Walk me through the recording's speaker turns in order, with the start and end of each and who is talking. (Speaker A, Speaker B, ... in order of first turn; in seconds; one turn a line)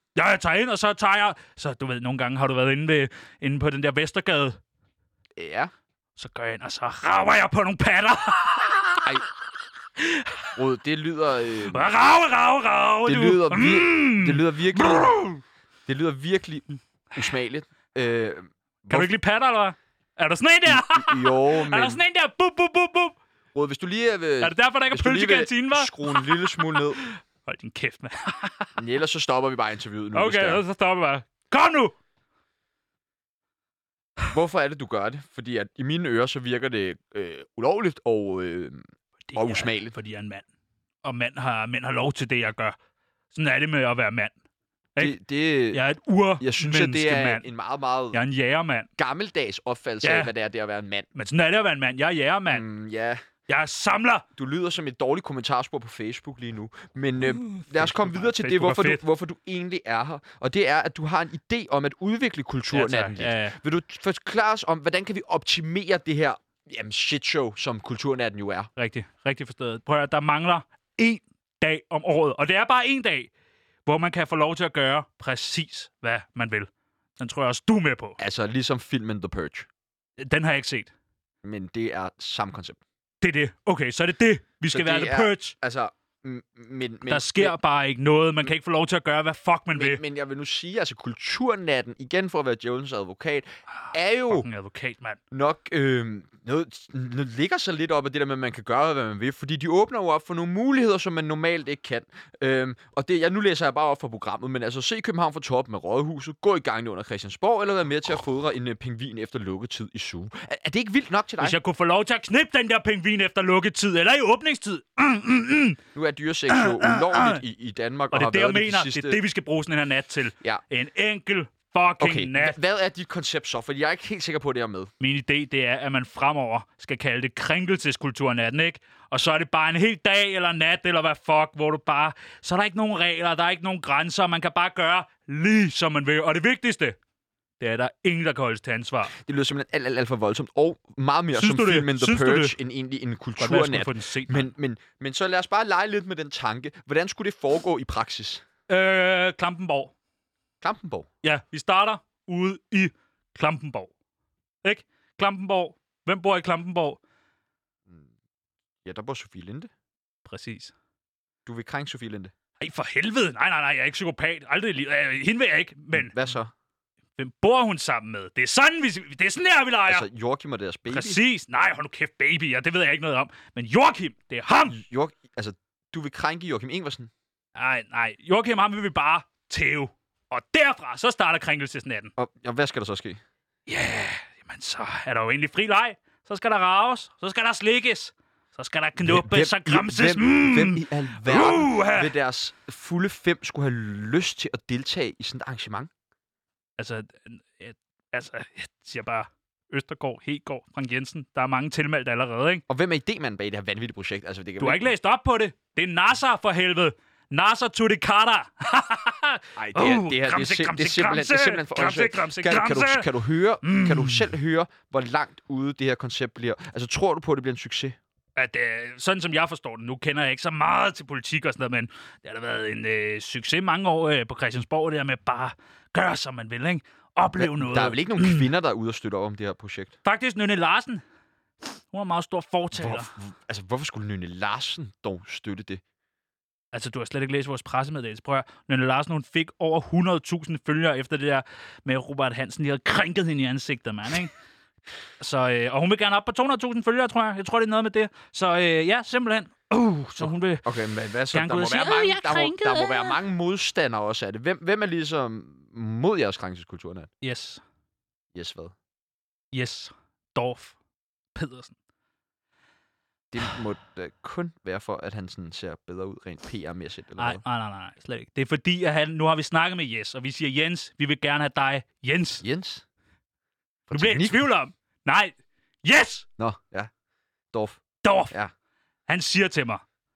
Speaker A: 0.1-4.6
Speaker B: 5.3-5.7
Speaker A: 6.2-9.2
Speaker A: 10.0-10.6
Speaker B: 10.6-11.9
Speaker A: 11.6-15.4
Speaker B: 13.0-15.2
Speaker B: 15.9-19.1
Speaker A: 18.9-23.2
Speaker B: 20.6-22.0
Speaker B: 23.5-27.0
Speaker A: 24.4-28.8
Speaker B: 28.8-30.6
Speaker A: 30.1-31.9
Speaker B: 34.3-38.8
Speaker A: 39.3-40.5
Speaker B: 39.3-39.9
Speaker A: 41.0-42.8
Speaker A: 43.3-44.3
Speaker B: 45.0-45.8
Speaker A: 45.7-47.5
Speaker B: 46.4-48.2
Speaker A: 48.1-48.9
Speaker B: 49.0-51.1
Speaker A: 50.0-50.3
Speaker A: 51.1-52.7
Speaker B: 52.5-53.2
Speaker A: 53.5-54.2
Speaker B: 54.4-68.7
Speaker A: 57.2-59.0
Speaker A: 62.7-63.5
Speaker A: 68.8-73.3
Speaker A: 73.8-78.2
Speaker B: 78.2-79.7
Speaker A: 80.2-80.9
Speaker B: 81.4-82.8
Speaker A: 83.2-85.5
Speaker B: 84.7-87.5
Speaker A: 87.1-90.0
Speaker B: 89.7-94.5
Speaker A: 93.8-95.2
Speaker B: 95.3-111.6
Speaker A: 111.4-115.8
Speaker B: 115.9-119.2
Speaker A: 116.5-117.4
Speaker A: 118.1-122.6
Speaker B: 122.0-124.9
Speaker A: 125.0-137.0
Speaker A: 137.6-139.1
Speaker B: 139.1-148.4
Speaker A: 141.3-142.6
Speaker A: 143.4-144.5
Speaker A: 148.7-149.9
Speaker B: 150.6-151.1
Speaker A: 151.2-153.9
Speaker A: 154.6-157.0
Speaker B: 158.8-159.7
Speaker A: 160.2-160.7
Speaker B: 161.4-162.3
Speaker A: 162.6-166.1
Speaker B: 165.9-166.5
Speaker A: 167.2-170.1
Speaker B: 169.9-171.2
Speaker A: 170.9-174.8
Speaker B: 174.7-177.1
Speaker A: 177.5-182.1
Speaker B: 182.2-183.2
Speaker A: 183.7-192.1
Speaker B: 189.0-195.9
Speaker A: 196.8-202.6
Speaker B: 202.7-204.9
Speaker A: 204.6-213.1
Speaker B: 209.6-218.0
Speaker A: 213.6-214.3
Speaker A: 218.3-228.5
Speaker B: 227.4-230.0
Speaker A: 230.0-231.0
Speaker A: 231.9-233.1
Speaker B: 232.7-235.8
Speaker A: 236.7-244.3
Speaker A: 245.2-250.8
Speaker B: 250.2-257.1
Speaker A: 251.3-253.1
Speaker A: 257.2-257.6
Speaker B: 258.3-258.7
Speaker A: 259.5-260.8
Speaker A: 261.3-261.8
Speaker B: 263.3-267.4
Speaker A: 267.2-272.4
Speaker B: 272.4-272.8
Speaker B: 273.9-274.4
Speaker A: 273.9-276.3
Speaker B: 276.4-276.9
Speaker B: 277.5-278.5
Speaker A: 278.0-278.3
Speaker A: 279.1-279.8